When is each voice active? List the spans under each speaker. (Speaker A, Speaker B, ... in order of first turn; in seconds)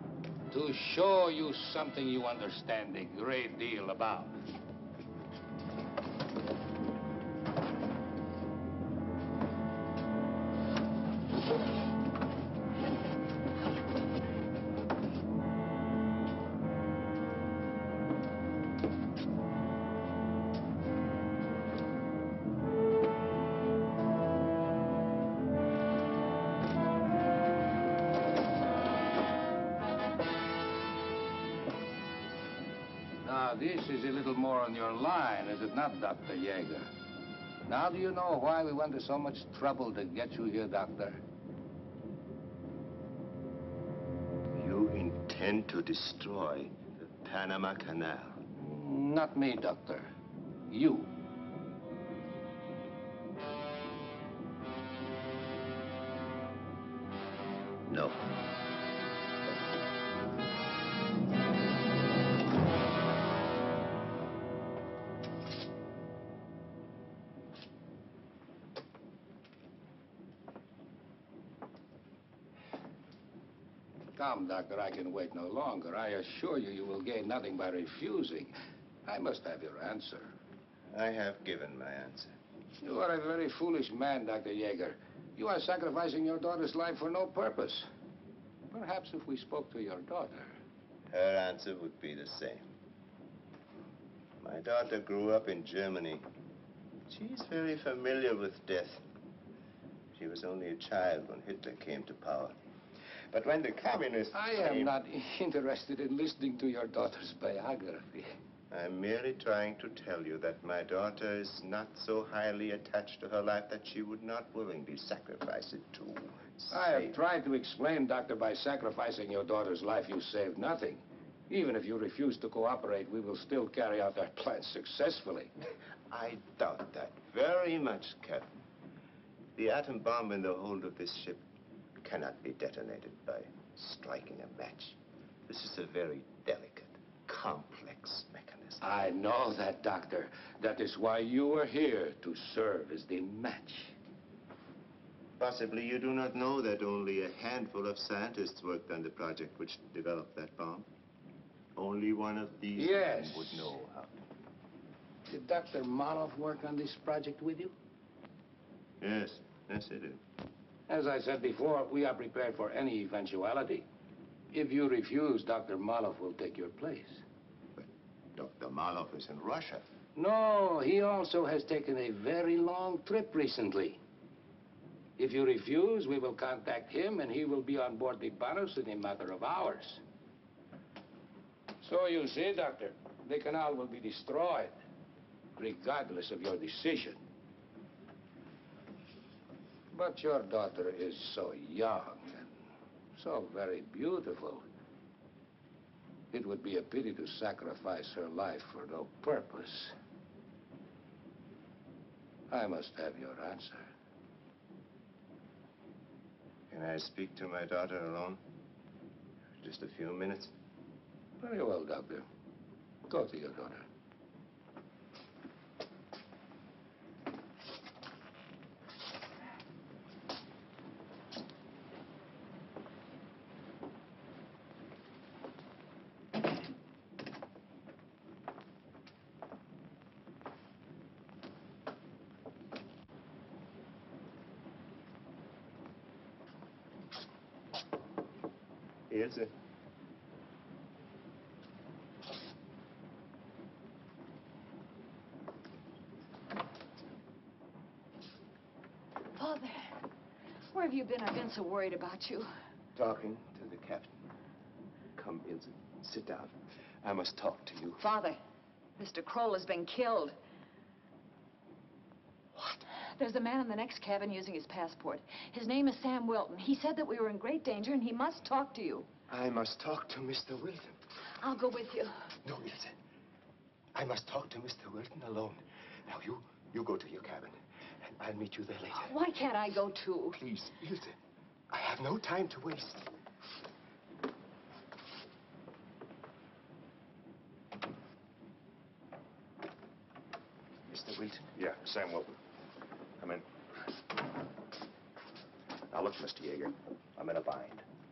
Speaker A: 0.5-4.3, 33.2-36.9, 37.6-41.2, 48.5-50.1, 50.7-51.1, 74.2-78.5, 79.0-80.3, 82.8-87.9, 88.7-90.6, 104.3-108.3, 116.7-125.5, 138.8-143.9, 152.8-153.7, 155.3-157.7, 160.9-163.8, 164.5-167.2, 170.2-174.0, 175.2-180.0, 181.8-184.7, 185.6-187.2, 189.9-192.5, 193.2-194.6, 196.3-199.9, 202.5-203.9, 211.4-212.2, 213.1-213.8
Speaker B: 44.5-48.4, 57.9-58.2, 80.9-82.3, 91.1-92.7, 94.4-96.3, 97.1-99.0, 100.1-102.5, 103.3-104.9, 108.7-117.2, 126.1-128.5, 129.6-131.4, 132.0-139.0, 145.4-150.9, 151.8-154.2, 159.0-160.2, 167.8-169.8, 206.7-208.4, 209.6-210.5, 239.1-239.5, 252.9-254.1, 255.1-258.0, 269.3-271.0, 272.4-272.9, 273.9-277.6, 278.2-279.1, 280.3-281.1, 281.7-283.1, 290.9-291.5
Speaker C: 249.3-249.9, 250.7-252.5, 258.0-258.4, 259.0-260.4, 262.9-269.1, 271.4-272.3, 279.0-280.4
Speaker D: 291.6-292.4, 293.2-293.4, 295.9-297.8